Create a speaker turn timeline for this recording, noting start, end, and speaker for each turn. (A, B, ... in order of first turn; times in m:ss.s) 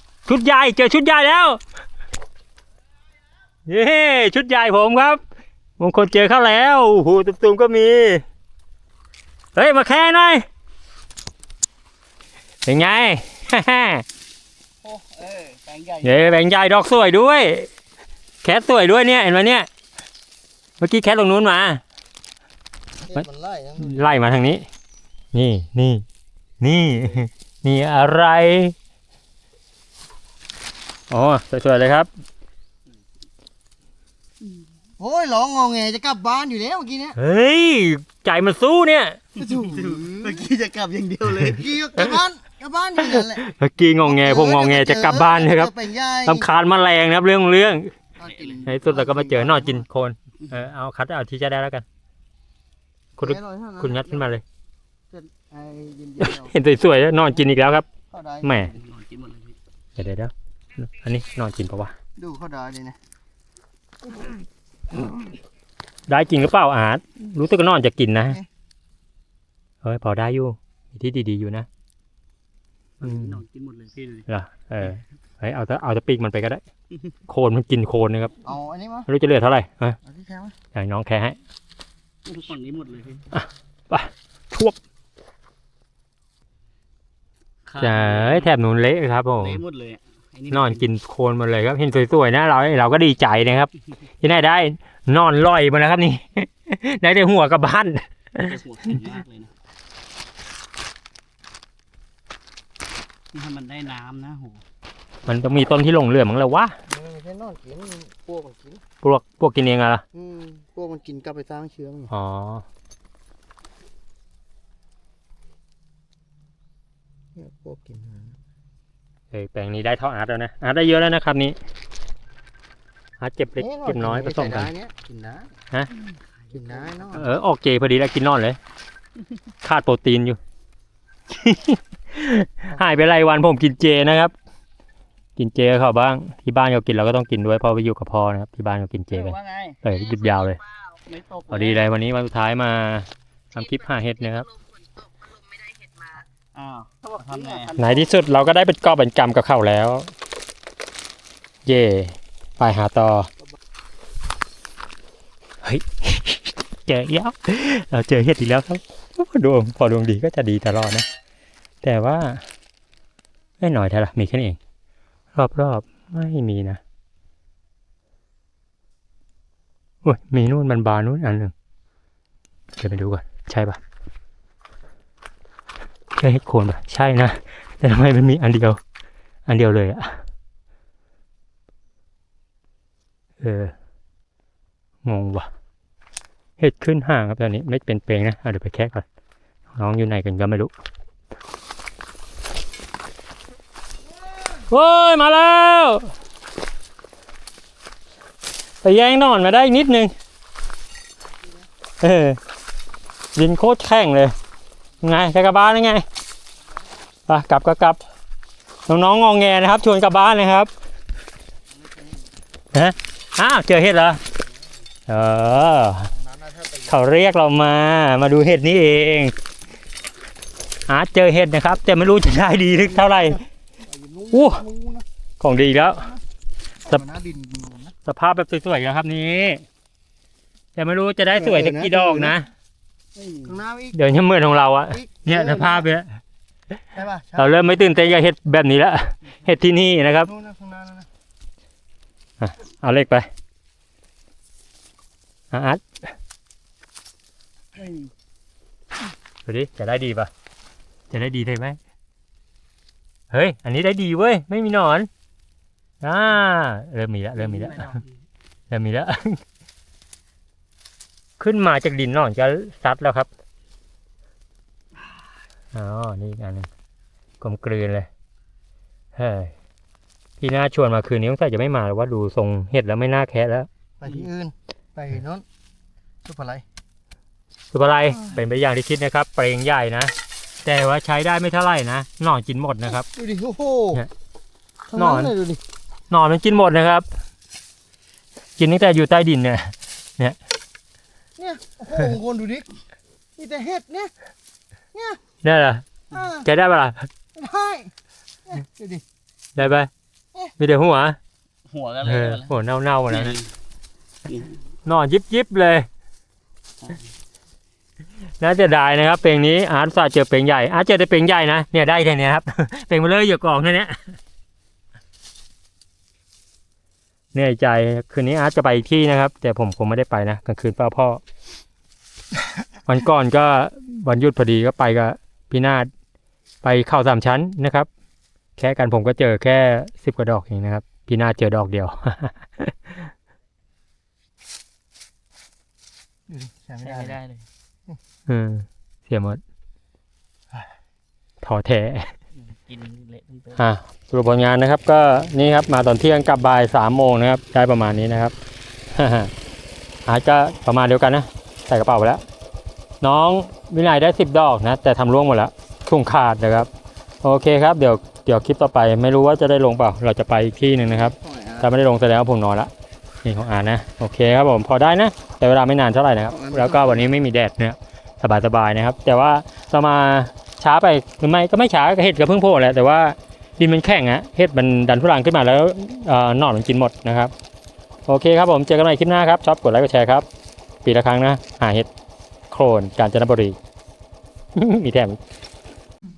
0:00.3-0:01.6 A
0:03.7-0:05.2 A
0:05.8-0:08.2 A
0:09.6-0:10.5 A
0:12.6-0:14.0 A
0:14.8-0:16.4 B
0:16.0-0:17.7 A
0:18.4-0:19.7 A
0:20.8-0:21.8 A
0:23.1-0:23.9 C
0:23.1-0:24.6 A
0:25.3-0:26.0 A
0:26.6-0:28.7 A
0:31.1-0:32.1 A
0:35.0-0:37.2 C
0:37.2-0:39.2 A
0:39.4-0:41.8 B
0:39.4-0:40.5 C
0:41.4-0:43.4 C
0:43.0-0:47.9 A
0:44.0-0:46.5 C
0:48.2-0:49.8 C
0:48.2-0:48.7 B
0:48.6-0:51.8 A
0:53.2-0:54.4 A
0:53.2-0:54.1 C
0:55.1-0:56.5 C
0:56.2-0:57.9 A
0:58.1-0:58.5 C
0:58.4-0:58.8 A
0:58.6-0:59.6 B
1:00.0-1:02.0 A
1:02.2-1:03.0 C
1:06.1-1:08.4 A
1:09.8-1:11.7 A
1:13.0-1:14.3 B
1:13.0-1:13.4 A
1:14.3-1:16.6 A
1:17.3-1:18.4 A
1:18.4-1:19.1 C
1:19.1-1:20.0 A
1:20.1-1:20.6 C
1:20.7-1:21.4 A
1:22.2-1:23.3 B
1:23.4-1:24.8 A
1:27.7-1:28.5 B
1:27.8-1:29.6 A
1:29.4-1:30.8 B
1:30.5-1:39.0 A
1:38.4-1:39.5 B
1:43.3-1:44.6 B
1:45.3-1:46.8 A
1:46.9-1:48.8 C
1:49.0-1:50.0 A
1:50.1-1:52.1 C
1:52.1-1:52.6 A
1:57.4-1:58.4 C
1:59.3-2:01.6 A
2:03.2-2:04.7 A
2:03.6-2:05.5 C
2:06.4-2:07.1 B
2:06.6-2:07.2 C
2:07.1-2:08.6 A
2:09.6-2:10.4 A
2:11.4-2:14.3 A
2:15.4-2:20.6 A
2:19.1-2:19.8 B
2:20.9-2:21.8 B
2:21.5-2:24.5 A
2:24.8-2:28.1 B
2:27.8-2:30.1 A
2:31.7-2:33.3 A
2:35.6-2:41.1 A
2:41.8-2:42.4 A
2:43.6-2:44.6 A
2:45.4-2:46.8 A
2:50.0-2:51.5 A
2:52.8-2:53.8 A
2:56.2-2:58.8 A
2:59.5-3:00.2 A
3:03.4-3:03.8 A
3:05.0-3:05.5 A
3:06.6-3:09.0 A
3:09.8-3:10.7 A
3:14.6-3:16.1 A
3:18.8-3:20.1 A
3:22.0-3:22.4 A
3:23.4-3:24.3 A
3:25.0-3:26.0 A
3:27.3-3:28.0 A
3:28.9-3:30.7 A
3:32.7-3:34.2 A
3:35.1-3:36.1 A
3:36.3-3:36.8 C
3:36.8-3:39.3 A
3:40.9-3:43.4 A
3:43.8-3:45.0 C
3:44.3-3:44.7 A
3:45.4-3:46.1 A
3:46.9-3:47.9 C
3:48.0-3:49.6 A
3:50.8-3:52.5 A
3:51.5-3:52.3 C
3:53.2-3:53.6 B
3:53.5-3:54.0 C
3:53.9-3:56.2 A
3:54.9-3:55.7 C
3:56.9-3:57.4 C
3:57.3-4:00.4 A
4:00.3-4:01.1 C
4:02.4-4:03.3 A
4:05.5-4:05.8 A
4:07.8-4:08.1 B
4:09.5-4:10.3 A
4:11.1-4:11.8 A
4:13.3-4:15.1 A
4:16.0-4:18.0 A
4:17.4-4:18.1 B
4:18.7-4:19.4 A
4:21.4-4:23.3 A
4:25.7-4:26.7 A
4:27.4-4:28.1 A
4:29.2-4:29.5 A
4:30.4-4:33.7 A
4:34.0-4:35.4 C
4:36.3-4:36.6 C
4:37.7-4:40.1 A
4:40.6-4:43.1 A
4:43.1-4:44.0 C
4:44.9-4:45.6 C
4:45.0-4:45.4 A
4:46.1-4:47.1 A
4:48.6-4:50.4 A
4:51.4-4:52.7 C
4:53.4-4:54.1 C
4:54.9-4:55.2 C
4:55.4-4:57.1 A
4:57.4-4:57.9 C
4:58.5-4:59.0 C
4:59.6-4:59.9 A
5:00.6-5:01.2 A
5:01.7-5:02.5 B
5:02.0-5:03.4 A
5:03.1-5:03.5 B
5:04.3-5:04.6 B
5:04.8-5:05.9 A
5:08.4-5:14.2 A
5:17.3-5:21.2 A
5:22.9-5:25.9 A
5:26.6-5:27.9 A
5:28.6-5:33.1 A
5:36.3-5:37.2 C
5:36.8-5:37.4 B
5:38.3-5:39.4 A
5:41.4-5:42.1 A
5:42.4-5:43.6 B
5:43.6-5:48.3 A
5:48.9-5:49.3 A
5:50.1-5:52.2 A
5:53.0-5:56.7 A
5:57.2-6:02.7 A
6:01.1-6:01.6 C
6:03.2-6:17.3 A
6:06.4-6:07.0 C
6:18.1-6:20.3 A
6:20.8-6:21.9 A
6:22.5-6:23.6 A
6:24.6-6:25.2 A